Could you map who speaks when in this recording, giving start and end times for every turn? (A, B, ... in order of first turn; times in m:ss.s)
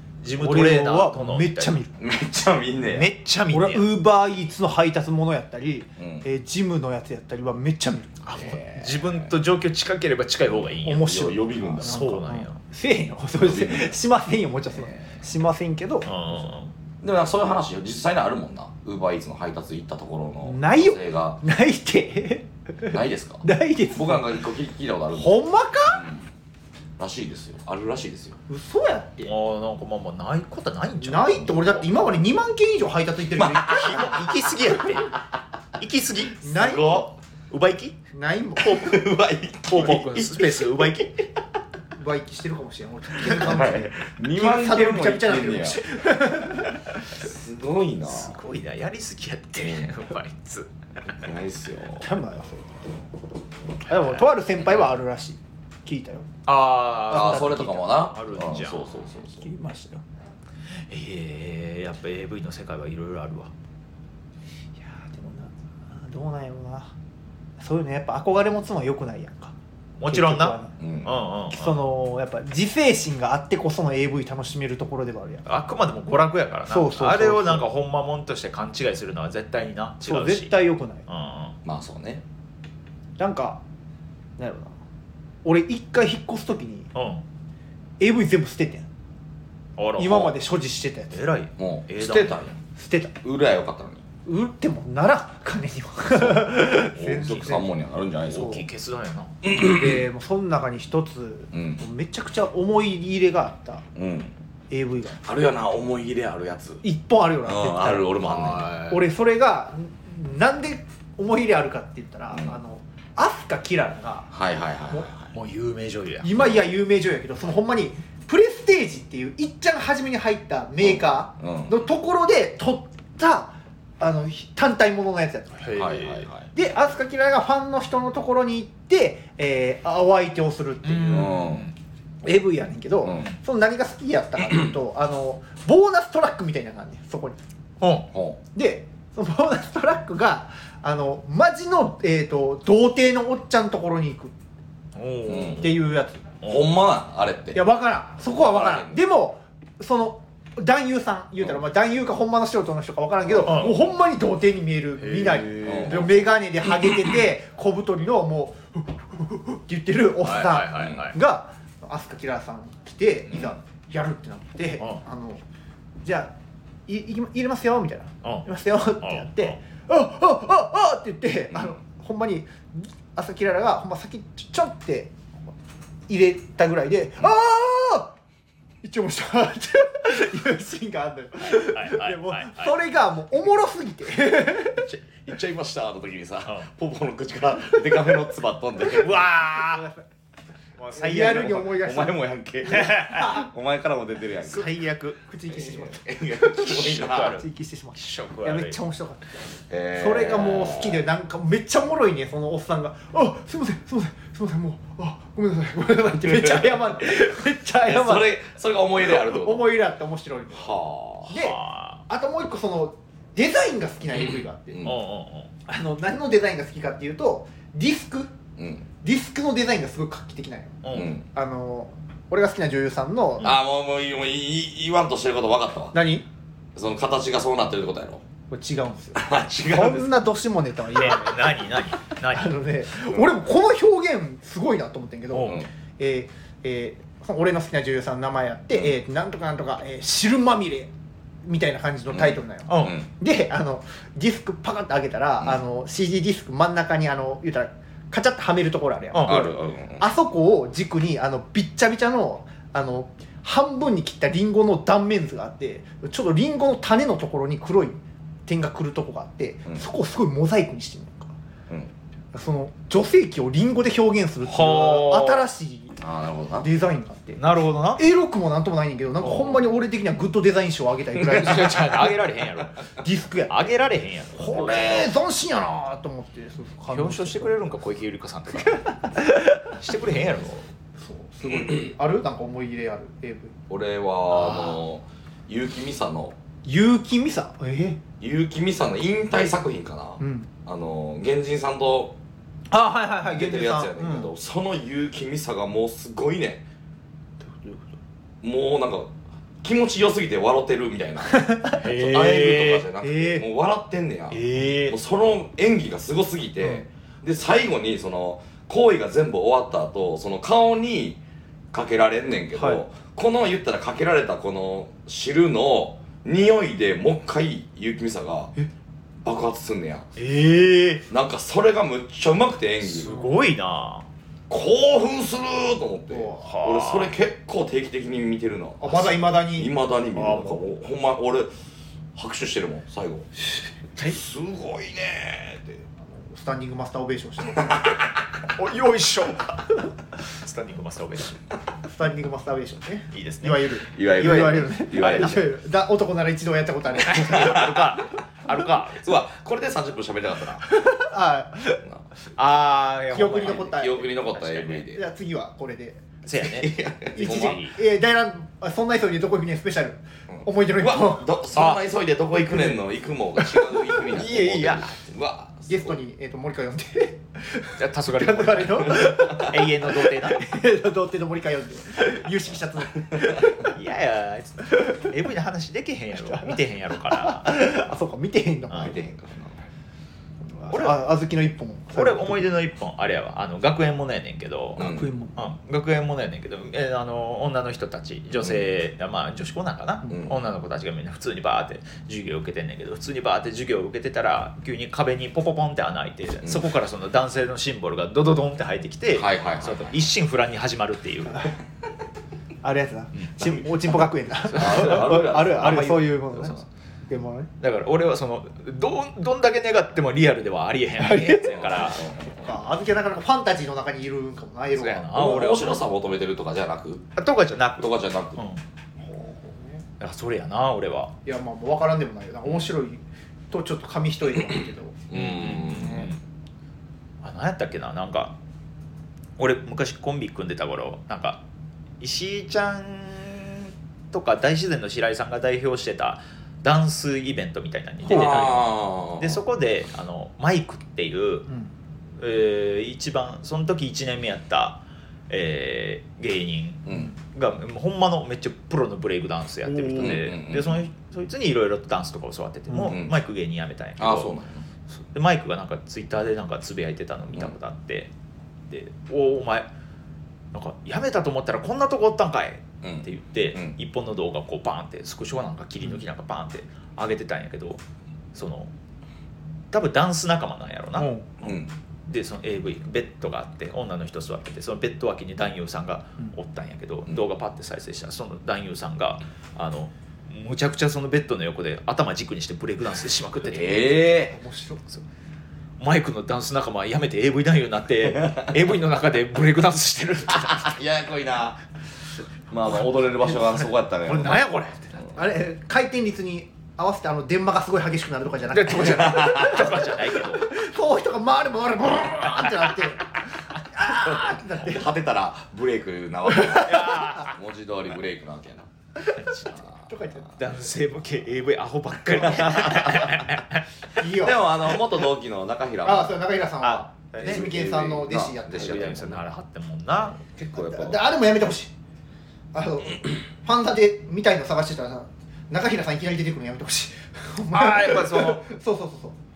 0:00.2-0:01.8 A
0:00.4-0:01.9 B
0:02.0-0:03.1 C
0:02.9-0:03.9 A
0:03.5-0:08.2 B
0:06.0-0:06.2 C
0:08.2-0:11.2 A
0:08.3-0:09.3 C
0:10.8-0:16.5 B
0:10.9-0:12.0 C
0:11.8-0:12.6 A
0:13.4-0:14.0 C
0:16.0-0:16.7 A
0:17.0-0:21.4 C
0:20.4-0:24.4 B
0:22.9-0:26.3 C
0:25.1-0:26.0 B
0:27.0-0:28.4 C
0:28.5-0:29.3 B
0:29.2-0:31.8 A
0:31.0-0:34.1 B
0:33.4-0:35.2 C
0:33.6-0:35.2 A
0:35.8-0:36.4 A
0:36.4-0:37.1 B
0:36.5-0:37.1 C
0:37.5-0:38.0 A
0:38.1-0:38.9 B
0:38.6-0:39.0 A
0:38.6-0:40.5 C
0:39.7-0:41.2 A
0:42.0-0:46.8 B
0:43.3-0:45.8 C
0:47.1-0:48.4 C
0:48.0-0:50.7 A
0:49.6-0:49.9 C
0:51.1-0:52.1 C
0:52.0-0:52.7 B
0:53.8-0:56.3 B
0:53.9-0:54.3 A
0:56.5-0:58.8 A
0:57.1-0:57.8 B
0:57.1-0:59.5 C
0:59.4-1:00.0 B
1:00.7-1:03.5 A
1:04.8-1:06.9 B
1:07.6-1:09.5 B
1:10.0-1:11.8 A
1:10.0-1:10.8 B
1:10.8-1:11.1 C
1:11.5-1:15.4 B
1:15.4-1:21.6 A
1:16.7-1:17.6 B
1:20.0-1:21.0 B
1:21.6-1:22.2 C
1:23.2-1:23.6 B
1:24.4-1:24.7 B
1:25.4-1:26.9 B
1:26.9-1:27.2 A
1:28.0-1:28.9 B
1:29.8-1:30.4 A
1:30.0-1:31.2 B
1:31.1-1:32.4 A
1:31.6-1:32.6 C
1:32.8-1:33.2 B
1:33.2-1:34.0 C
1:34.2-1:37.7 B
1:36.1-1:38.6 C
1:38.3-1:39.3 A
1:38.3-1:38.6 B
1:39.4-1:40.0 C
1:39.5-1:43.8 B
1:41.5-1:41.8 C
1:44.0-1:44.3 C
1:44.7-1:45.3 B
1:45.2-1:46.8 C
1:46.8-1:48.1 B
1:47.4-1:48.7 C
1:48.2-1:49.0 A
1:48.9-1:54.3 B
1:52.3-1:52.6 C
1:54.3-1:55.3 C
1:55.3-1:56.4 A
1:56.2-2:05.7 B
2:00.8-2:01.8 C
2:05.6-2:06.2 A
2:05.7-2:06.5 C
2:06.5-2:11.4 B
2:10.8-2:11.7 A
2:11.1-2:11.7 C
2:12.2-2:17.4 B
2:13.0-2:13.3 C
2:17.8-2:18.1 A
2:18.1-2:18.4 C
2:18.5-2:24.3 B
2:24.9-2:25.7 A
2:25.3-2:25.7 C
2:25.6-2:26.3 B
2:26.4-2:27.6 C
2:27.5-2:45.4 B
2:28.2-2:29.0 C
2:33.2-2:33.8 C
2:33.4-2:33.8 A
2:35.0-2:36.0 A
2:35.6-2:36.2 C
2:40.2-2:41.2 A
2:40.2-2:41.1 C
2:46.0-2:46.3 B
2:46.9-2:55.2 B
2:49.0-2:49.6 A
2:56.1-2:58.1 B
2:58.8-3:04.9 B
3:01.4-3:02.7 A
3:04.8-3:09.2 C
3:08.9-3:09.9 A
3:09.4-3:10.0 B
3:10.8-3:11.7 A
3:11.0-3:12.2 B
3:11.3-3:14.8 C
3:12.7-3:13.4 A
3:12.9-3:13.4 B
3:14.4-3:15.2 A
3:15.2-3:28.4 B
3:15.5-3:17.4 C
3:16.6-3:17.4 A
3:18.0-3:18.8 A
3:19.7-3:21.0 C
3:26.2-3:26.8 C
3:27.8-3:29.7 C
3:29.0-3:34.8 B
3:30.5-3:31.3 C
3:31.3-3:32.0 A
3:34.1-3:34.9 C
3:34.8-3:35.5 A
3:35.7-3:38.3 B
3:38.6-3:38.9 C
3:39.0-3:43.5 B
3:40.8-3:41.2 A
3:40.9-3:41.3 C
3:43.4-3:46.0 C
3:45.9-3:46.2 B
3:46.8-3:48.2 C
3:48.5-3:51.6 B
3:49.1-3:50.2 C
3:50.9-3:52.6 A
3:52.3-4:00.9 B
3:55.3-3:55.6 A
3:55.4-3:55.7 C
4:01.4-4:21.3 B
4:02.1-4:03.1 C
4:02.7-4:03.0 A
4:09.1-4:09.5 A
4:09.2-4:10.0 C
4:22.3-4:26.0 B
4:24.4-4:25.4 A
4:26.0-4:26.7 C
4:26.6-4:27.4 B
4:27.4-4:28.0 A
4:28.0-4:32.2 B
4:29.2-4:29.5 A
4:31.3-4:32.8 A
4:33.0-4:33.7 B
4:33.5-4:35.1 A
4:34.3-4:37.6 B
4:36.9-4:40.6 A
4:41.0-4:43.6 B
4:43.7-4:46.4 C
4:44.3-4:44.8 A
4:46.6-4:48.0 B
4:48.2-4:52.2 C
4:50.2-4:50.5 B
4:52.7-4:54.3 B
4:53.2-4:56.6 C
4:57.4-4:57.9 B
4:58.4-5:11.2 C
5:01.3-5:01.8 B
5:01.7-5:02.8 A
5:03.0-5:03.4 B
5:04.3-5:05.0 A
5:11.7-5:18.5 C
5:12.5-5:12.8 B
5:19.2-5:20.1 C
5:20.2-5:21.0 A
5:21.1-5:23.2 C
5:22.8-5:24.0 A
5:24.5-5:31.5 C
5:26.1-5:26.4 B
5:26.4-5:27.1 A
5:28.8-5:29.7 B
5:30.2-5:30.6 A
5:32.1-5:33.3 C
5:34.0-5:35.8 C
5:36.0-5:37.8 B
5:38.5-5:39.6 A
5:40.2-5:41.4 A
5:41.8-5:47.8 B
5:43.1-5:45.4 A
5:43.9-5:45.5 C
5:47.0-5:49.1 A
5:47.0-5:48.0 C
5:49.0-5:50.7 C
5:50.6-5:51.8 B
5:52.4-5:54.8 A
5:53.1-5:54.1 B
5:53.4-5:55.0 C
5:54.9-5:56.2 B
5:56.2-5:57.8 A
5:56.4-5:57.6 C
5:57.0-6:01.3 B
6:00.3-6:06.0 C
6:01.5-6:01.8 A
6:02.5-6:02.8 A
6:03.4-6:05.0 A
6:05.7-6:13.8 B
6:07.8-6:10.4 A
6:09.0-6:09.4 C
6:13.6-6:17.6 A
6:16.2-6:19.1 B
6:18.7-6:19.1 A
6:18.9-6:19.5 C
6:20.4-6:22.4 B
6:20.7-6:21.0 A
6:21.9-6:41.5 A
6:24.8-6:25.1 C
6:24.8-6:25.3 B
6:30.1-6:30.4 C
6:36.4-6:36.7 C
6:39.1-6:40.0 C
6:42.6-6:46.6 B
6:43.1-6:46.6 A
6:44.5-6:46.0 C
6:47.1-6:47.5 B
6:47.6-6:52.1 A
6:51.0-6:55.7 B
6:51.6-6:52.6 C
6:54.8-6:55.8 A
6:55.1-6:57.1 C
6:57.2-6:58.6 A
6:57.8-6:58.4 C
6:59.0-6:59.8 B
7:00.0-7:01.1 A
7:01.2-7:05.0 B
7:04.5-7:06.2 C
7:05.1-7:06.2 A
7:07.2-7:08.3 A
7:09.4-7:11.4 A
7:12.0-7:21.5 A
7:18.0-7:19.4 C
7:18.1-7:18.4 B
7:21.5-7:21.7 B
7:22.2-7:34.4 A
7:26.8-7:27.1 C
7:29.6-7:30.2 B
7:30.0-7:30.8 C
7:32.7-7:33.0 B
7:32.8-7:33.1 C
7:34.0-7:34.6 C
7:35.1-7:38.1 A
7:38.7-7:39.7 A
7:40.5-7:47.8 A
7:42.8-7:43.8 C
7:48.3-7:48.7 A
7:49.7-7:51.1 A
7:51.0-7:51.3 B
7:51.4-7:51.7 C
7:52.1-8:04.1 A
8:03.5-8:04.4 C
8:04.1-8:04.8 B
8:05.8-8:10.8 A
8:08.2-8:08.5 C
8:10.3-8:11.6 C
8:12.5-8:14.4 C
8:13.2-8:15.1 A
8:15.1-8:24.9 B
8:18.5-8:20.5 A
8:18.9-8:19.8 C
8:23.8-8:28.7 C
8:26.3-8:27.0 B
8:26.5-8:27.4 A
8:29.1-8:29.6 A
8:29.7-8:30.5 B
8:30.4-8:33.6 A
8:32.2-8:33.2 C
8:34.0-8:34.5 B
8:34.0-8:36.2 C
8:35.8-8:39.1 B
8:36.6-8:37.5 A
8:37.2-8:39.2 C
8:38.5-8:40.2 A
8:40.4-8:41.0 C
8:40.5-8:41.7 B
8:42.5-8:49.2 B
8:47.5-8:48.4 A